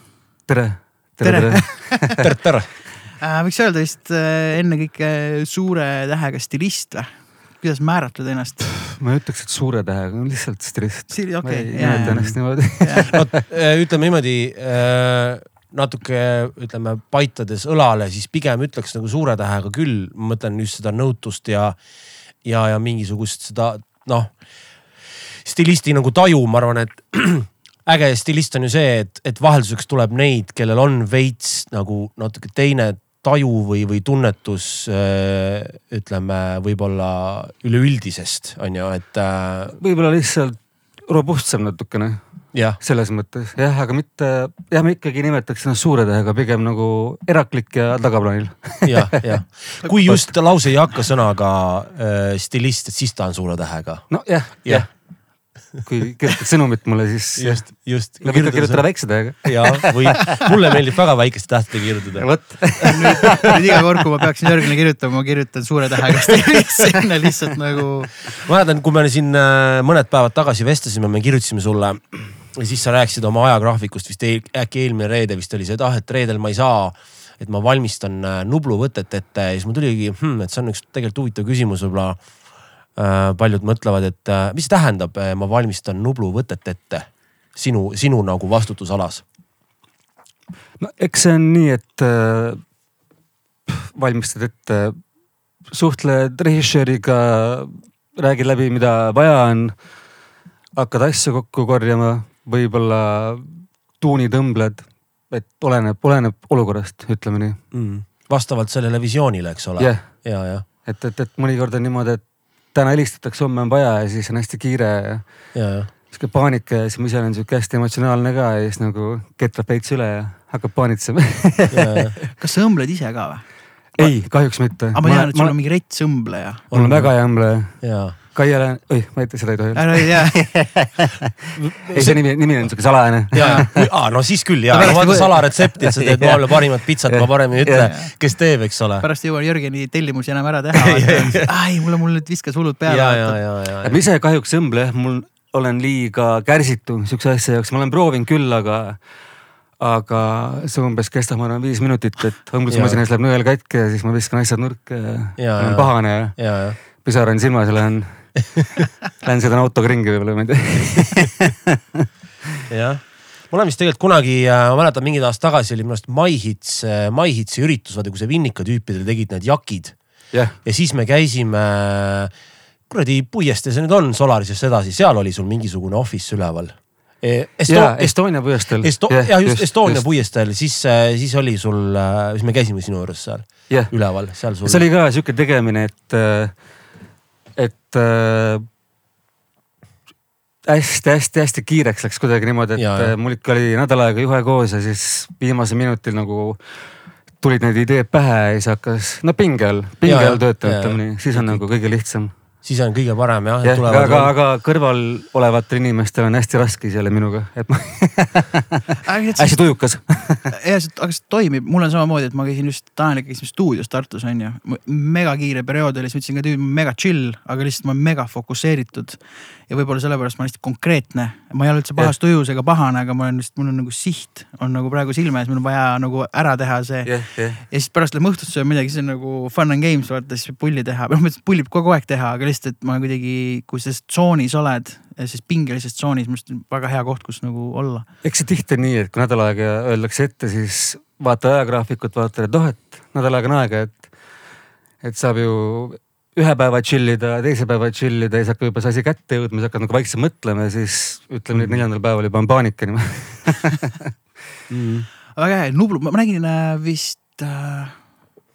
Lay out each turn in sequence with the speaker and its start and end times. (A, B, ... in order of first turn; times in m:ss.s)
0:00.5-0:02.3 A
0:01.2-0:02.1 B
0:02.1-0:02.7 C
0:03.2-0:08.8 B
0:08.9-0:13.3 A
0:11.1-0:13.1 B
0:11.9-0:12.5 C
0:13.1-0:21.8 C
0:22.4-0:24.3 C
0:25.4-0:39.8 C
0:39.8-0:49.3 A
0:42.5-0:42.8 C
0:48.8-0:54.9 C
0:49.9-0:50.2 A
0:54.1-0:55.1 A
0:55.7-1:00.5 A
0:57.4-1:03.0 C
1:02.2-1:03.5 A
1:02.9-1:08.3 B
1:08.4-1:22.2 C
1:22.9-1:29.2 C
1:30.8-1:32.6 A
1:33.6-1:35.0 A
1:35.6-1:39.9 A
1:40.8-1:47.6 A
1:47.7-1:50.6 C
1:49.8-1:55.5 A
1:55.5-1:55.9 C
1:56.1-2:02.1 A
2:01.7-2:02.2 C
2:02.3-2:03.4 B
2:04.0-2:05.5 A
2:04.9-2:06.7 B
2:06.7-2:08.2 C
2:06.7-2:11.1 A
2:09.7-2:10.8 B
2:11.7-2:13.9 A
2:11.8-2:12.7 C
2:13.3-2:19.0 C
2:13.3-2:13.7 B
2:14.7-2:17.9 A
2:14.8-2:15.3 B
2:17.8-2:18.1 B
2:19.0-2:23.4 B
2:20.8-2:21.5 C
2:22.9-2:24.0 C
2:23.8-2:29.0 A
2:29.8-2:42.0 A
2:32.7-2:33.0 C
2:35.4-2:36.8 C
2:42.7-2:52.3 C
2:50.3-2:50.6 A
2:52.9-3:04.8 C
2:57.7-3:00.0 A
3:03.7-3:06.6 A
3:07.6-3:08.6 A
3:10.6-3:16.8 A
3:12.8-3:13.1 C
3:17.4-3:22.3 A
3:20.0-3:21.7 C
3:22.6-3:24.3 C
3:23.6-3:28.8 A
3:29.0-3:30.0 B
3:29.4-3:30.5 A
3:30.5-3:58.0 B
3:47.0-3:47.6 A
3:58.2-4:04.2 A
4:05.0-4:14.1 A
4:11.5-4:11.8 C
4:14.7-4:15.1 C
4:15.3-4:18.1 B